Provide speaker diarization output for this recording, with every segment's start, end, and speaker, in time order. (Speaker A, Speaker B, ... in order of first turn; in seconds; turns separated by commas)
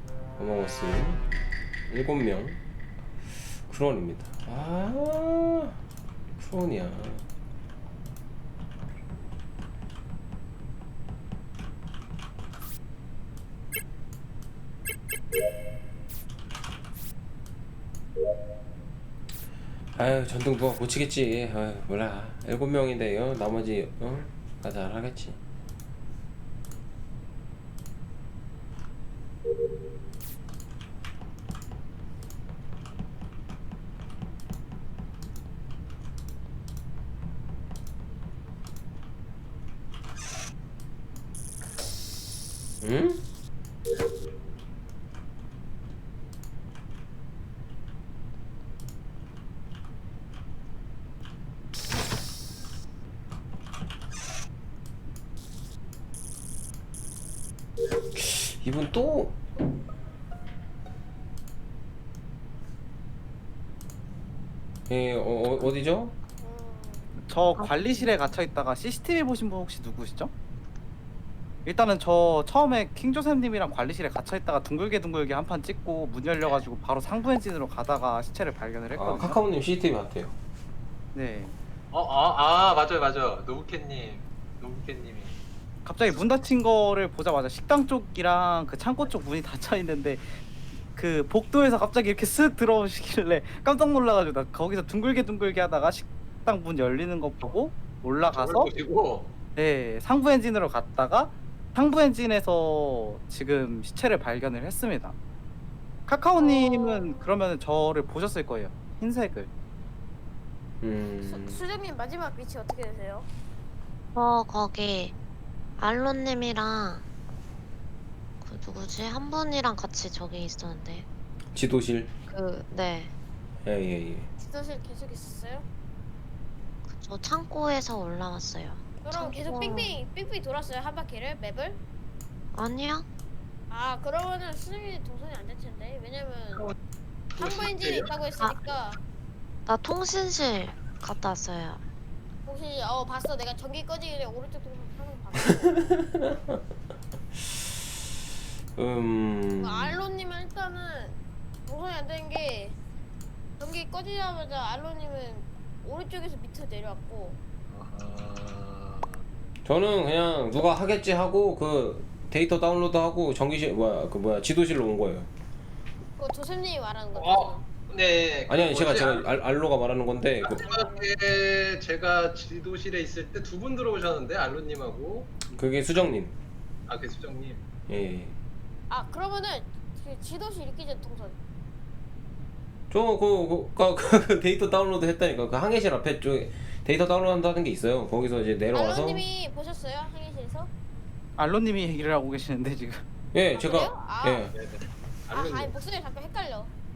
Speaker A: 0.4-1.2, Speaker A: 1.9-2.6, Speaker A: 3.6-5.7, Speaker A: 6.3-7.2, Speaker A: 19.9-25.4, Speaker A: 42.8-43.2, Speaker A: 57.9-59.4, Speaker A: 64.9-66.1, Speaker B: 66.4-67.1, Speaker C: 67.2-70.3, Speaker D: 67.5-68.2, Speaker C: 71.7-79.4, Speaker A: 78.9-80.3, Speaker C: 81.1-81.5, Speaker E: 81.9-85.3, Speaker C: 85.8-90.3, Speaker C: 90.9-98.7, Speaker E: 98.3-99.3, Speaker C: 99.5-105.1, Speaker C: 106.1-109.5, Speaker B: 106.4-107.2, Speaker A: 110.8-111.6, Speaker B: 111.2-113.3, Speaker D: 114.1-115.1, Speaker D: 115.8-117.0, Speaker D: 118.4-121.1, Speaker A: 121.5-122.1, Speaker D: 122.3-123.1, Speaker A: 123.6-124.3, Speaker B: 124.4-125.7, Speaker D: 126.9-130.0, Speaker B: 129.0-131.8, Speaker D: 132.5-133.1, Speaker B: 133.7-136.7, Speaker E: 137.3-138.1, Speaker B: 137.4-139.0, Speaker D: 138.4-138.7, Speaker D: 139.7-141.8, Speaker B: 142.4-145.8, Speaker A: 145.9-146.6, Speaker A: 148.8-150.0, Speaker B: 149.6-152.8, Speaker B: 153.6-157.4, Speaker E: 157.7-159.2, Speaker A: 159.6-165.3, Speaker B: 166.2-167.6, Speaker E: 167.1-169.3, Speaker A: 168.5-170.6, Speaker E: 170.4-175.6, Speaker B: 170.5-171.1, Speaker A: 175.5-176.3, Speaker E: 176.9-177.6, Speaker A: 177.9-178.4, Speaker B: 178.9-181.4, Speaker A: 182.9-189.2, Speaker B: 188.7-190.7, Speaker C: 191.4-193.0, Speaker A: 193.3-194.5, Speaker B: 193.5-194.5, Speaker E: 194.5-195.7, Speaker B: 195.3-196.7